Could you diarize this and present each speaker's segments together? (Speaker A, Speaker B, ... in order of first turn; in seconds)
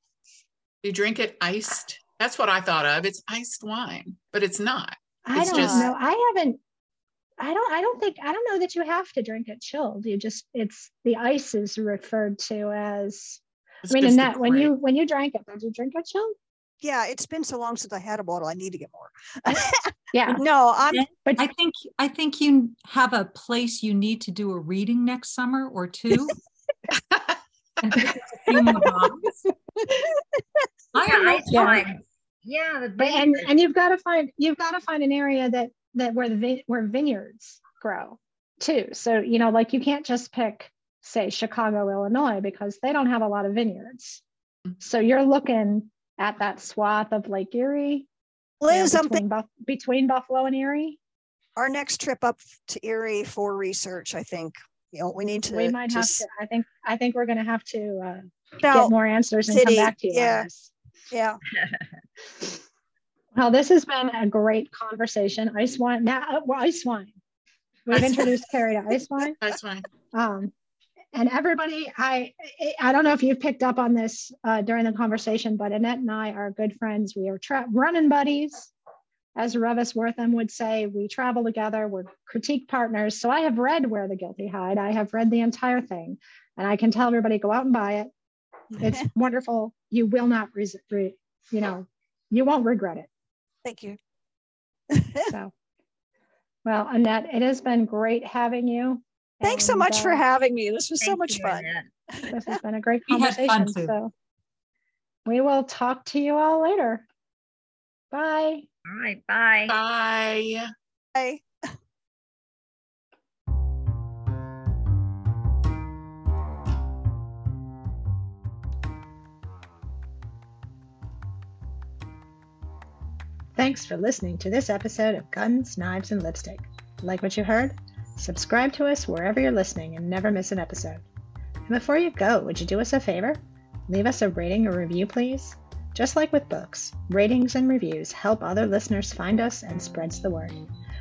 Speaker A: 0.8-5.9, 13.9-14.7, 27.1-27.4, 67.9-68.3, 69.4-69.9, 109.7-110.7
Speaker B: 5.2-6.6, 7.4-16.3, 19.5-20.4, 28.0-28.8, 31.5-31.9, 33.0-44.2, 44.8-48.1, 48.7-51.0, 55.5-60.7, 63.3-67.2, 67.9-69.4, 70.1-70.5, 71.1-78.7, 79.4-88.1, 88.8-93.1, 96.7-100.2, 102.3-104.1, 105.3-107.0, 108.1-108.7, 123.6-131.0, 131.7-140.6
Speaker C: 5.5-5.9, 16.8-21.1, 29.8-30.7, 48.6-49.2, 51.6-56.2, 58.6-58.9, 59.5-60.5, 61.1-61.4, 88.8-89.0, 93.6-94.0, 94.9-95.3, 99.4-102.4, 111.1-111.7
Speaker D: 20.9-26.4, 27.8-29.4, 30.9-31.9, 103.1-104.0
Speaker E: 31.0-33.5, 61.6-61.9, 101.0-101.9, 108.9-109.8